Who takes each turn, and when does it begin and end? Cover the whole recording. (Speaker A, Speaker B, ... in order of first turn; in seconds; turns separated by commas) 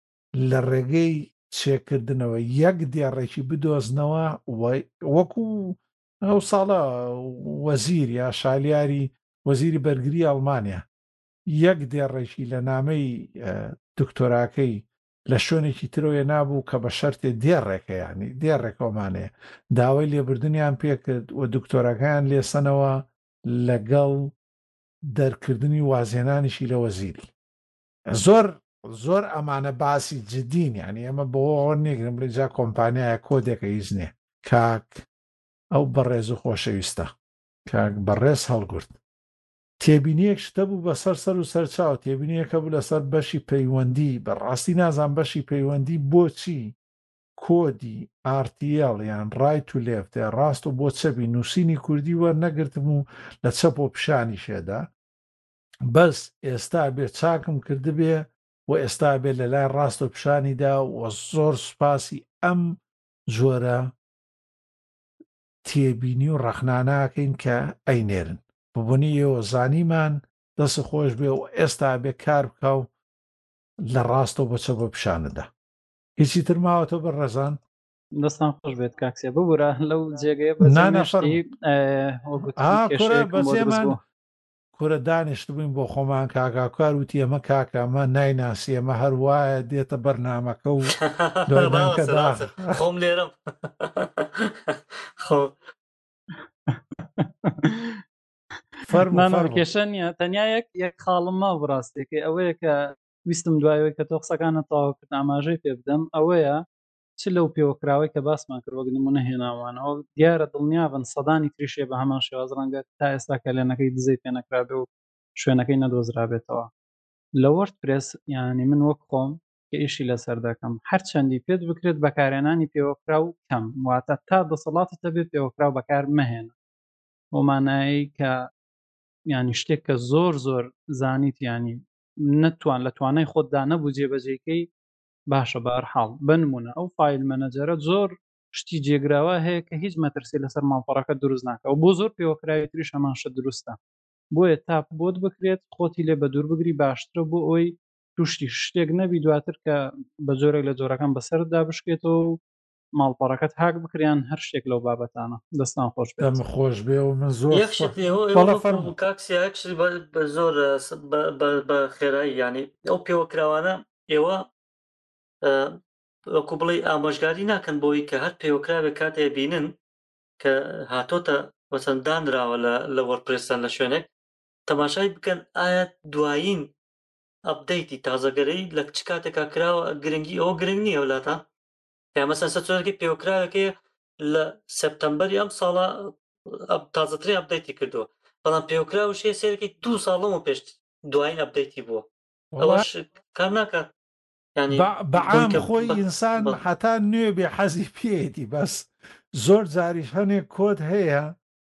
Speaker A: 0.4-10.8, Speaker A: 11.5-24.3, Speaker A: 25.0-27.3, Speaker A: 28.1-35.0, Speaker A: 35.7-37.1, Speaker A: 37.6-39.0, Speaker A: 39.8-46.8, Speaker A: 47.4-54.9, Speaker A: 55.9-63.9, Speaker A: 65.6-72.9, Speaker A: 73.8-75.5, Speaker A: 76.2-77.6, Speaker B: 78.2-84.0, Speaker A: 80.6-81.4, Speaker A: 82.6-84.0, Speaker A: 84.7-91.0, Speaker C: 90.9-95.5, Speaker A: 91.5-92.7, Speaker B: 96.7-97.9, Speaker A: 98.9-99.7, Speaker B: 99.1-106.6, Speaker B: 107.2-116.7, Speaker B: 117.4-126.5, Speaker B: 127.3-128.5, Speaker B: 129.3-134.7, Speaker B: 135.3-143.8, Speaker B: 144.3-152.4, Speaker B: 152.9-156.4, Speaker A: 156.2-158.9, Speaker C: 157.5-164.5, Speaker C: 165.4-165.8, Speaker C: 166.3-169.7, Speaker C: 170.4-174.1, Speaker C: 174.7-176.7, Speaker C: 177.4-181.4, Speaker C: 182.1-192.1, Speaker A: 192.5-192.8, Speaker C: 192.6-193.9, Speaker C: 194.6-196.6, Speaker A: 194.7-201.3